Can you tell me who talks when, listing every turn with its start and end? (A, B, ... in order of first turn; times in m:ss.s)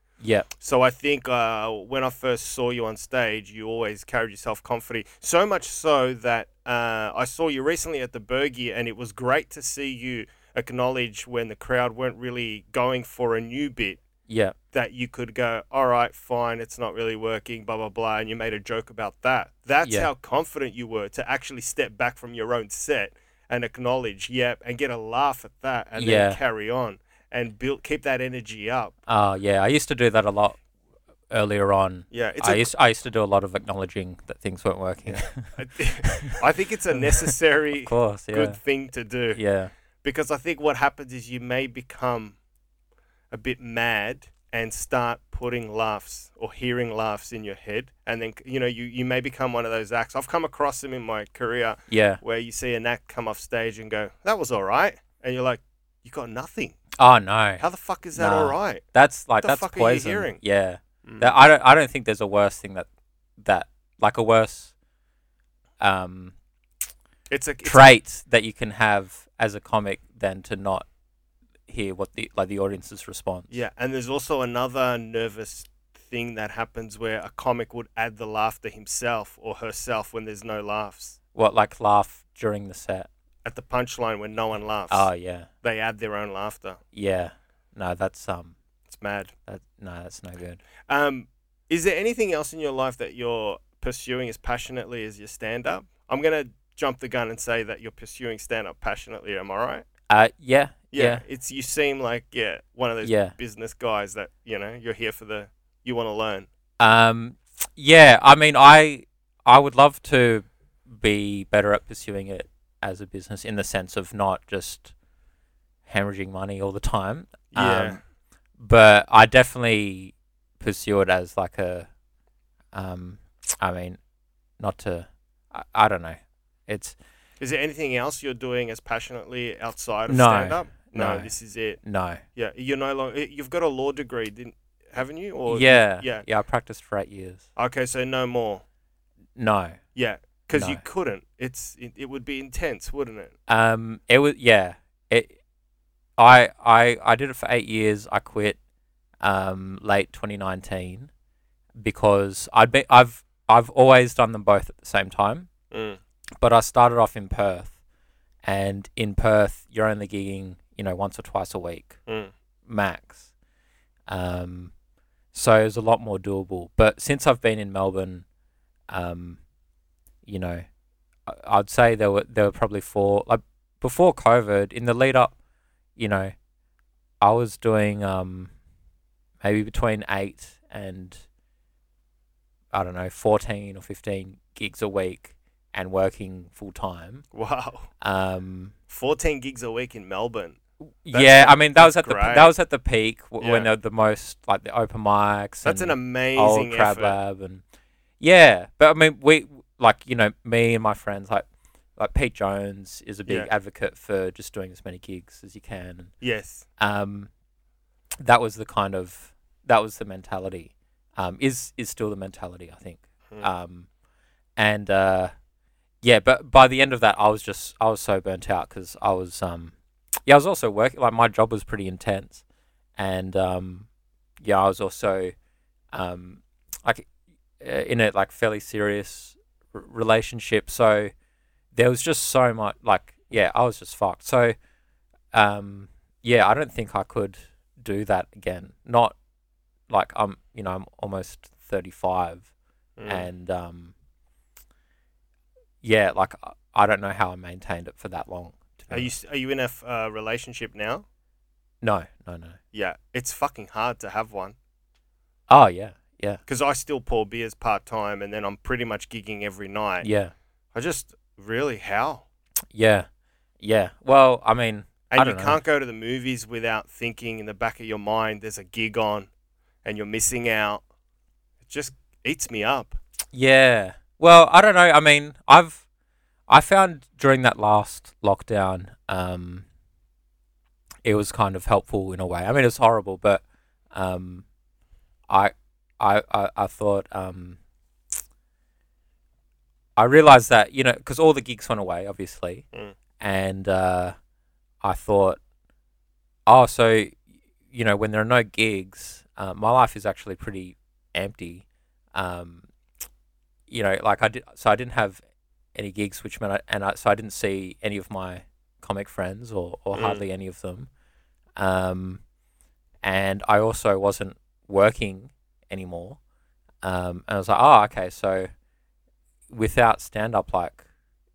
0:00.2-0:00.5 A
0:00.6-0:14.0 B
0:14.3-0:14.5 A
0:14.7-0:28.9 B
0:19.8-0:20.1 A
0:26.0-0:26.4 A
0:29.1-0:30.6 A
0:31.3-0:36.4 A
0:32.1-0:32.7 B
0:35.1-0:39.4 B
0:37.0-0:37.3 A
0:37.8-0:38.6 A
0:39.3-0:39.7 A
0:40.0-0:42.4 B
0:43.3-0:56.8 B
0:51.9-0:52.2 A
0:57.0-0:57.6 A
0:57.6-0:58.8 B
0:58.1-1:02.9 A
0:59.4-1:00.4 B
1:01.0-1:01.3 B
1:03.4-1:04.7 A
1:05.8-1:06.3 A
1:07.3-1:07.9 B
1:07.6-1:10.8 A
1:11.7-1:13.6 A
1:13.5-1:21.2 B
1:21.3-1:23.1 A
1:23.4-1:25.1 B
1:24.9-1:25.5 A
1:25.6-1:26.8 B
1:26.9-1:28.5 A
1:28.9-1:29.3 B
1:29.5-1:30.6 A
1:30.9-1:39.8 B
1:40.1-1:41.2 A
1:40.9-1:46.5 B
1:43.0-1:43.3 A
1:46.8-1:54.9 A
1:55.9-1:58.0 A
1:57.5-1:58.0 B
1:58.6-2:01.9 A
2:02.7-2:04.0 A
2:04.6-2:07.0 A
2:07.4-2:11.8 B
2:10.1-2:11.3 A
2:11.8-2:12.2 A
2:12.4-2:16.2 B
2:15.5-2:17.4 A
2:17.6-2:18.6 B
2:19.4-2:19.8 A
2:19.9-2:23.3 B
2:20.5-2:20.8 A
2:23.5-2:25.4 A
2:26.2-2:28.6 A
2:29.2-2:31.1 A
2:31.8-2:35.5 A
2:35.7-2:36.0 B
2:36.4-2:37.7 A
2:38.4-2:42.0 A
2:42.1-2:42.3 B
2:42.7-2:43.3 A
2:44.1-2:44.7 A
2:45.3-2:48.2 A
2:48.9-2:49.4 A
2:50.2-2:50.6 A
2:51.3-2:55.3 A
2:56.0-2:56.3 A
2:57.2-2:58.5 A
2:59.4-3:01.2 A
3:02.7-3:07.2 A
3:07.3-3:07.9 B
3:08.0-3:08.7 A
3:08.9-3:10.6 B
3:11.0-3:17.6 A
3:11.1-3:12.5 B
3:13.4-3:13.7 B
3:15.6-3:17.2 B
3:18.2-3:21.4 A
3:22.0-3:26.1 A
3:23.2-3:23.5 B
3:26.2-3:26.6 B
3:26.8-3:27.3 A
3:28.2-3:33.9 A
3:34.6-3:35.3 A
3:36.0-3:39.7 A
3:40.2-3:42.4 A
3:43.0-3:43.9 A
3:44.4-3:45.3 A
3:45.9-3:47.1 A
3:47.6-3:51.1 A
3:51.7-3:54.5 A
3:55.3-3:59.2 A
3:59.9-4:02.5 A
4:03.0-4:03.3 B
4:03.0-4:03.9 A
4:05.8-4:09.1 A
4:08.9-4:11.0 B
4:11.8-4:12.6 A
4:12.7-4:14.6 B
4:15.5-4:16.4 A
4:16.5-4:20.1 B
4:20.0-4:20.3 A
4:20.7-4:22.2 B
4:22.7-4:23.1 A
4:23.6-4:25.6 A
4:25.1-4:29.3 B
4:29.8-4:30.8 B
4:31.6-4:33.0 B
4:33.3-4:35.8 A
4:36.5-4:39.6 A
4:41.0-4:44.4 A
4:45.3-4:47.6 A
4:50.0-4:52.6 A
4:53.2-4:54.1 A
4:54.8-4:55.4 A
4:56.5-4:57.2 A
4:57.7-5:02.6 A
5:03.7-5:05.2 A
5:05.7-5:10.9 A
5:09.9-5:10.2 B
5:11.6-5:12.2 A
5:13.0-5:16.2 A
5:16.8-5:18.5 A
5:19.5-5:20.8 A